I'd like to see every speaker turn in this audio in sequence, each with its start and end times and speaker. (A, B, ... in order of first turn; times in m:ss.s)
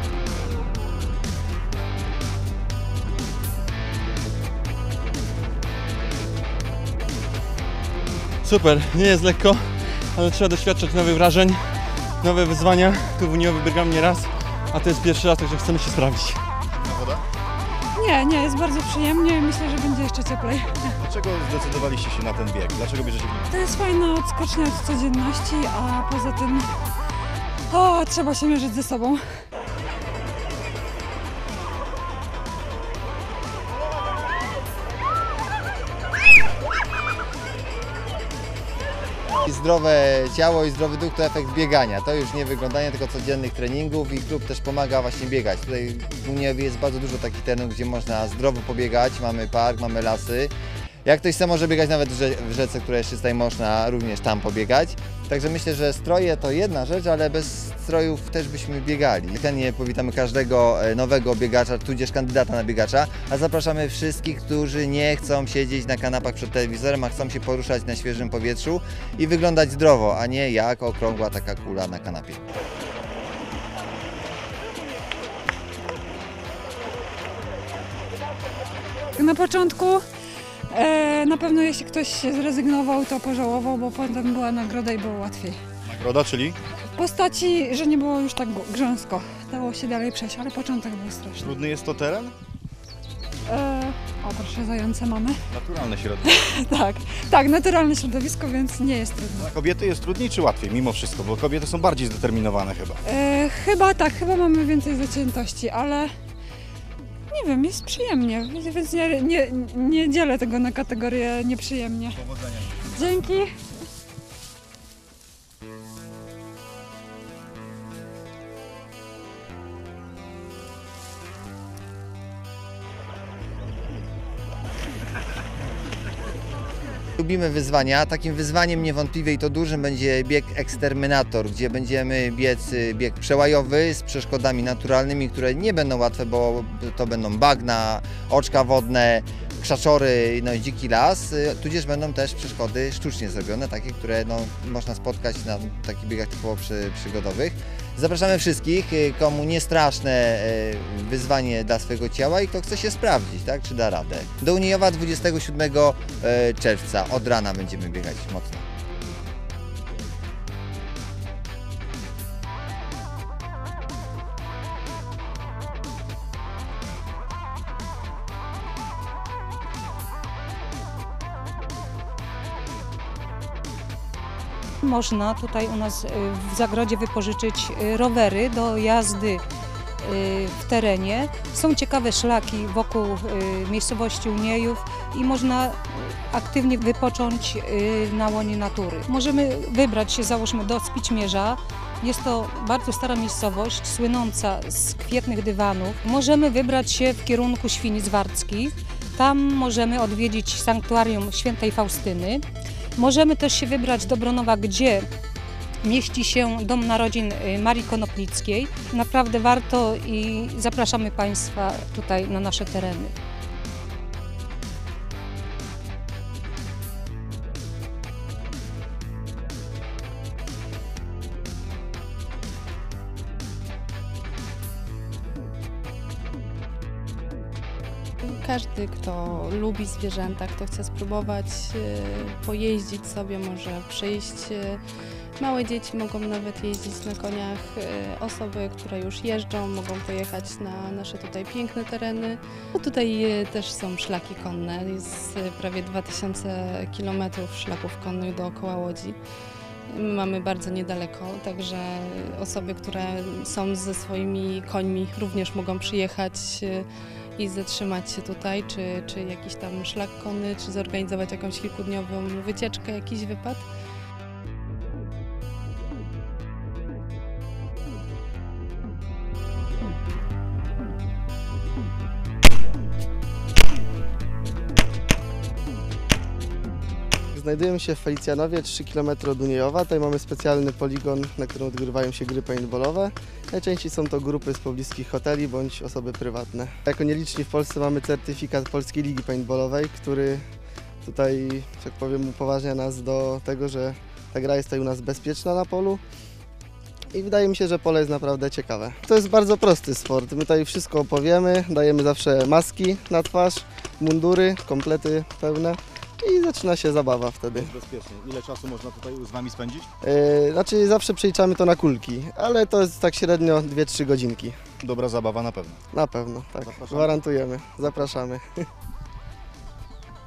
0:08.4-0:16.5 A
0:16.8-0:17.2 B
0:17.9-0:21.0 C
0:21.0-0:23.5 B
0:23.5-0:26.7 C
0:27.7-0:29.2 C
0:39.4-0:50.5 D
0:51.0-1:12.4 D
1:19.2-1:20.0 C
1:20.7-1:25.6 C
1:25.8-1:26.6 B
1:26.9-1:31.5 C
1:31.4-1:32.3 B
1:33.5-1:35.4 C
1:35.5-1:36.3 B
1:36.2-1:39.5 C
1:39.4-1:43.0 B
1:43.0-1:46.1 C
1:47.3-1:53.5 C
2:07.2-2:38.6 D
2:54.8-2:59.4 E
3:00.0-3:22.4 E
3:23.0-3:25.1 E
3:25.8-3:33.1 E
3:48.2-3:54.8 F
3:55.4-4:09.2 F
4:09.9-4:23.6 F
4:37.3-4:50.4 G
4:51.0-4:56.0 G
4:57.1-5:07.7 G
5:07.6-5:09.9 B
5:10.0-5:14.6 G
5:14.8-5:15.8 B
5:15.9-5:18.5 G
5:16.7-5:17.2 B